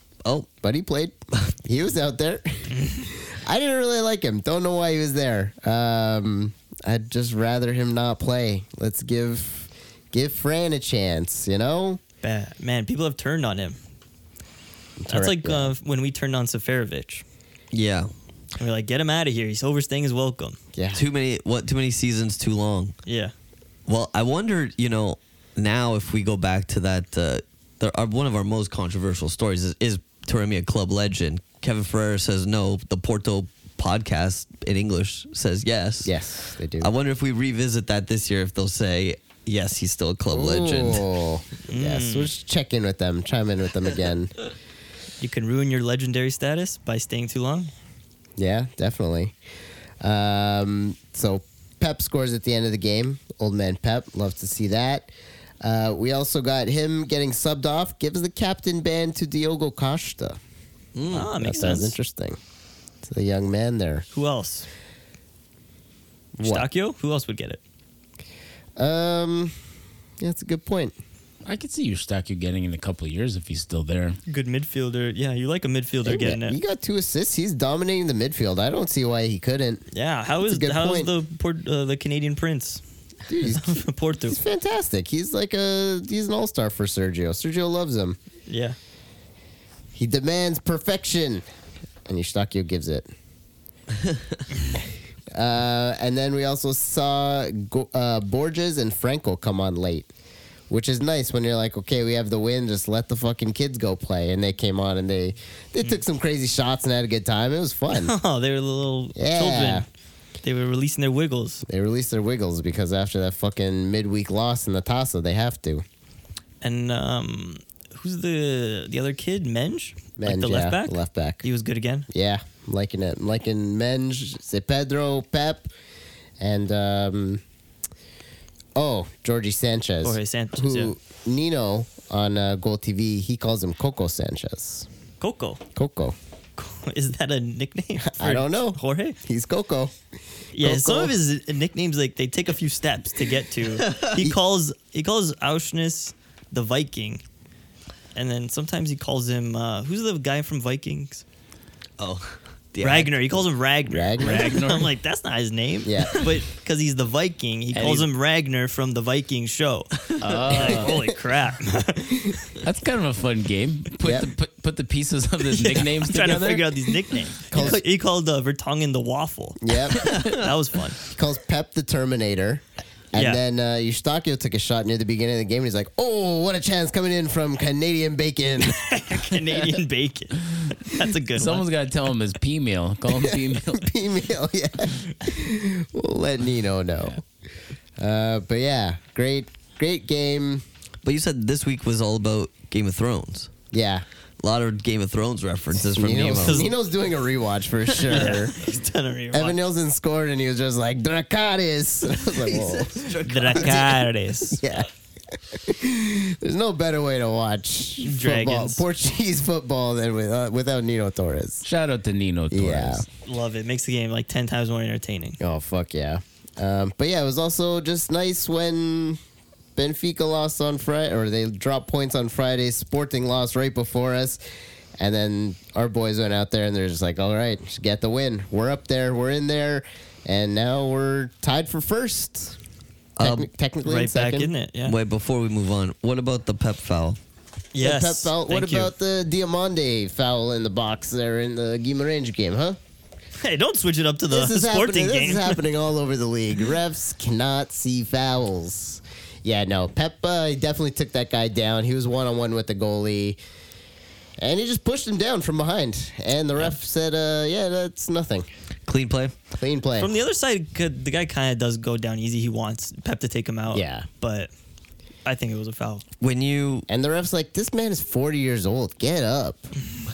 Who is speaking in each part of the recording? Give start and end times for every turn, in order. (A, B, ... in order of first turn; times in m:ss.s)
0:00.5-0:12.0 A
0:02.7-0:03.1 B
0:12.2-0:13.8 B
0:15.0-0:15.7 A
0:15.1-0:17.2 B
0:17.7-0:18.1 C
0:18.6-0:20.6 B
0:20.7-0:21.0 A
0:20.9-0:23.0 C
0:23.1-0:23.3 B
0:23.9-0:36.2 C
0:36.0-0:36.9 A
0:36.8-0:41.0 C
0:40.3-0:44.3 A
0:41.7-0:42.3 B
0:45.2-0:47.7 B
0:48.4-0:49.3 A
0:50.0-1:00.4 A
1:01.0-1:01.3 C
1:01.1-1:02.0 B
1:01.1-1:02.4 A
1:03.0-1:04.1 A
1:04.1-1:04.7 B
1:06.4-1:06.7 A
1:06.4-1:07.6 B
1:08.8-1:09.5 A
1:10.2-1:11.0 A
1:11.4-1:14.2 D
1:14.3-1:16.6 B
1:16.0-1:19.9 A
1:19.9-1:22.8 B
1:20.4-1:21.1 A
1:23.3-1:28.2 A
1:23.5-1:24.4 B
1:28.5-1:28.8 B
1:30.0-1:31.4 A
1:32.1-1:33.1 A
1:35.3-1:40.1 A
1:40.7-1:48.1 A
1:47.9-1:49.9 B
1:49.2-1:49.9 A
1:50.4-1:51.6 B
1:51.7-1:55.8 A
1:56.6-2:02.1 B
2:00.2-2:01.4 A
2:02.1-2:05.7 A
2:06.4-2:07.4 A
2:08.8-2:14.9 A
2:10.0-2:10.9 B
2:15.2-2:15.6 B
2:15.8-2:16.2 A
2:16.6-2:19.2 B
2:18.0-2:19.9 A
2:20.6-2:27.2 B
2:20.6-2:21.2 A
2:23.8-2:24.1 C
2:28.2-2:31.2 B
2:32.0-2:33.2 C
2:32.8-2:42.5 B
2:33.9-2:34.6 A
2:34.2-2:34.9 D
2:35.8-2:36.3 A
2:37.7-2:38.1 D
2:40.2-2:41.0 D
2:42.6-2:47.0 D
2:44.0-2:44.3 A
2:45.5-2:51.0 B
2:47.5-2:47.8 A
2:49.6-2:50.2 A
2:50.0-2:50.5 C
2:51.1-2:59.6 A
2:53.1-2:53.4 B
2:58.6-3:01.7 B
3:01.3-3:03.9 D
3:03.2-3:07.2 A
3:08.0-3:10.6 A
3:11.0-3:13.5 C
3:13.7-3:14.0 A
3:14.4-3:16.7 C
3:15.8-3:18.6 A
3:16.4-3:16.7 B
3:18.1-3:19.6 B
3:19.3-3:24.0 A
3:22.4-3:24.0 C
3:23.2-3:24.6 B
3:24.5-3:31.6 A
3:28.0-3:28.8 B
3:31.6-3:33.1 D
3:32.5-3:33.0 A
3:33.2-3:35.4 B
3:35.4-3:39.2 A
3:39.8-3:44.4 A
3:45.0-3:52.6 A
3:53.2-3:53.5 C
3:53.2-3:54.5 A
3:53.8-3:55.0 B
3:54.8-3:57.2 C
3:57.7-3:58.9 B
3:57.8-4:02.8 A
4:03.4-4:05.6 B
4:04.3-4:13.4 A
4:14.4-4:18.5 A
4:18.9-4:19.4 C
4:19.6-4:20.2 A
4:20.0-4:24.5 B
4:23.7-4:24.1 A
4:25.2-4:26.0 B
4:26.2-4:26.9 C
4:26.9-4:29.7 A